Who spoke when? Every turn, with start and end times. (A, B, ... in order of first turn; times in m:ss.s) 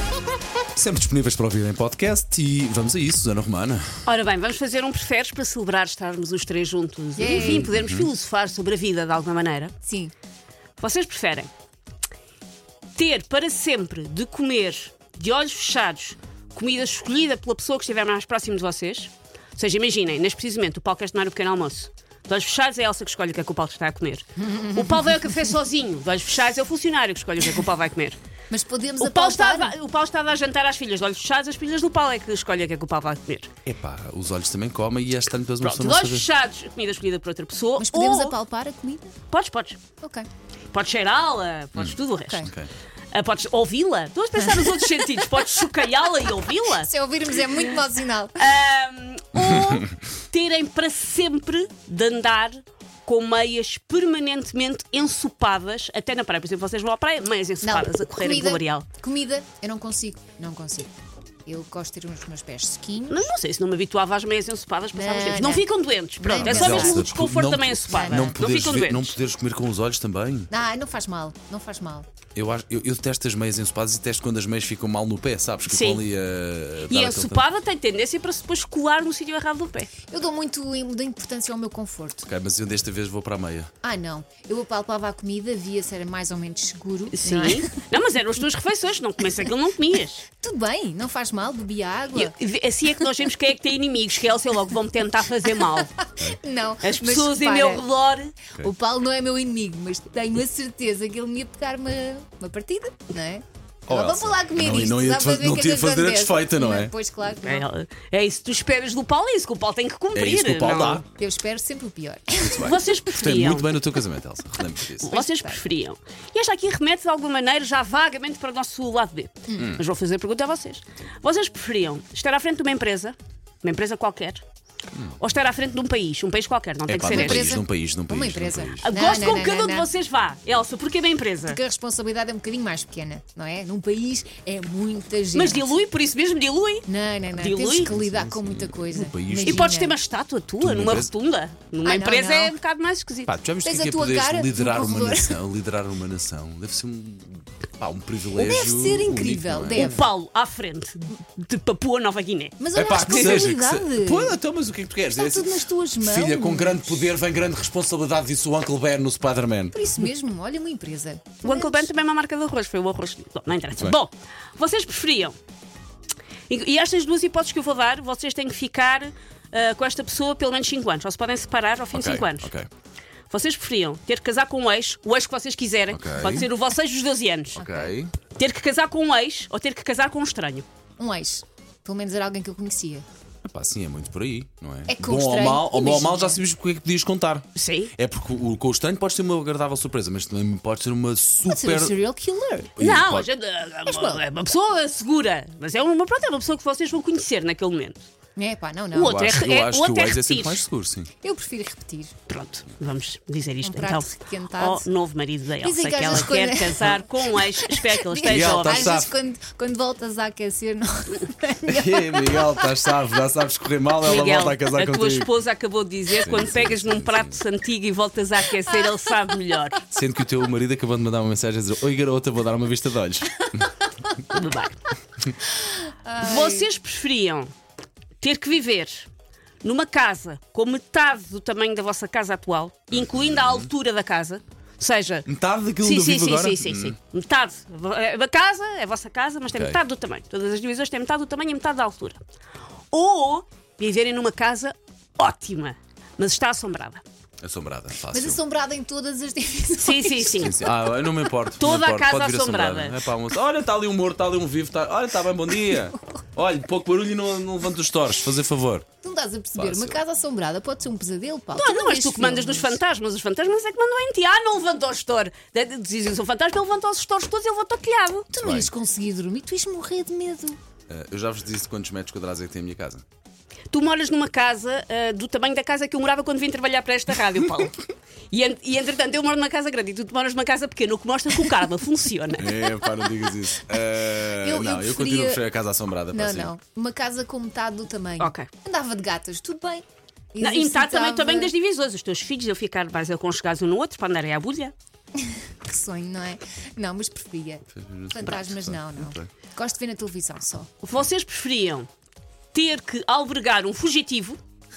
0:00.7-0:03.8 A
0:04.0-0:09.7 B
0:07.2-0:07.6 C
0:07.3-0:08.1 A
0:09.8-0:10.1 C
0:10.8-0:11.5 B
0:13.0-0:28.2 B
0:24.4-0:25.0 C
0:28.5-0:29.7 C
0:29.0-0:33.5 B
0:33.6-0:36.2 A
0:35.6-0:38.4 B
0:37.8-0:39.1 C
0:39.3-0:39.8 B
0:40.0-0:40.3 C
0:40.7-0:42.5 B
0:41.8-0:42.7 A
0:42.2-0:42.5 C
0:43.1-0:46.9 B
0:44.4-0:44.7 C
0:46.8-0:48.4 C
0:48.4-0:58.9 B
0:49.4-0:49.8 A
0:57.6-1:00.9 C
1:01.4-1:03.3 C
1:03.1-1:09.1 B
1:04.9-1:05.7 C
1:06.2-1:07.0 C
1:06.4-1:10.5 A
1:07.9-1:08.3 C
1:10.5-1:12.0 C
1:12.3-1:17.4 A
1:15.7-1:16.0 B
1:16.9-1:19.9 B
1:20.1-1:22.3 C
1:22.2-1:23.7 A
1:23.8-1:27.7 C
1:27.1-1:30.2 B
1:30.3-1:32.3 C
1:32.1-1:35.9 B
1:35.8-1:37.8 C
1:36.8-1:38.4 B
1:38.6-1:47.7 C
1:43.9-1:46.9 A
1:47.2-1:51.0 B
1:50.1-1:51.0 A
1:51.1-1:52.7 C
1:52.5-1:55.2 A
1:52.5-1:53.7 B
1:55.0-2:04.4 B
1:55.1-1:55.6 C
1:59.5-1:59.8 C
1:59.5-1:59.8 A
2:05.2-2:07.5 B
2:06.9-2:08.9 A
2:07.1-2:09.9 C
2:08.8-2:11.6 B
2:11.5-2:15.7 C
2:15.3-2:17.9 B
2:16.9-2:20.0 C
2:17.8-2:19.7 A
2:19.4-2:23.4 B
2:20.6-2:21.1 A
2:21.8-2:22.6 C
2:23.3-2:30.0 A
2:23.6-2:25.4 C
2:28.3-2:30.1 C
2:29.7-2:33.4 B
2:32.6-2:34.4 C
2:32.7-2:39.8 A
2:35.1-2:37.1 C
2:39.7-2:41.9 C
2:41.4-2:45.4 B
2:43.7-2:44.0 A
2:46.5-2:52.5 B
2:51.9-2:52.7 A
2:53.3-3:00.6 B
2:55.9-2:56.5 A
2:57.6-2:58.1 A
2:57.6-2:57.8 C
3:01.0-3:03.0 C
3:03.4-3:12.0 A
3:04.9-3:06.4 C
3:07.5-3:07.9 B
3:11.5-3:12.7 C
3:12.8-3:13.3 A
3:12.8-3:18.0 B
3:13.9-3:14.2 C
3:18.4-3:19.2 C
3:18.9-3:20.6 B
3:19.0-3:21.1 A
3:21.2-3:22.1 C
3:22.3-3:28.9 B
3:23.6-3:24.9 C
3:25.6-3:32.9 C
3:28.2-3:29.1 A
3:31.6-3:35.3 A
3:34.0-3:39.8 B
3:36.1-3:37.4 A
3:39.9-3:43.8 A
3:44.2-3:44.9 B
3:45.5-3:46.7 C
3:46.2-3:47.5 B
3:48.2-3:49.1 B
3:49.6-3:55.2 B
3:52.9-3:53.7 A
3:55.2-3:57.0 A
3:55.8-4:02.2 B
3:59.5-3:59.8 A
4:02.9-4:07.0 B
4:07.4-4:08.4 A
4:08.1-4:10.7 C
4:09.8-4:10.7 B
4:10.4-4:18.8 A
4:11.6-4:13.0 B
4:19.0-4:22.8 C
4:19.6-4:20.0 A
4:21.5-4:28.3 B
4:28.3-4:28.7 A
4:28.3-4:30.6 C
4:30.9-4:33.0 A
4:33.7-4:42.5 B
4:42.4-4:46.5 A
4:44.3-4:45.4 C
4:46.1-4:51.5 C
4:48.2-4:48.5 B
4:50.4-4:54.7 B
4:55.1-5:00.7 C
4:57.7-4:59.3 A
5:00.8-5:01.9 B
5:02.5-5:04.4 B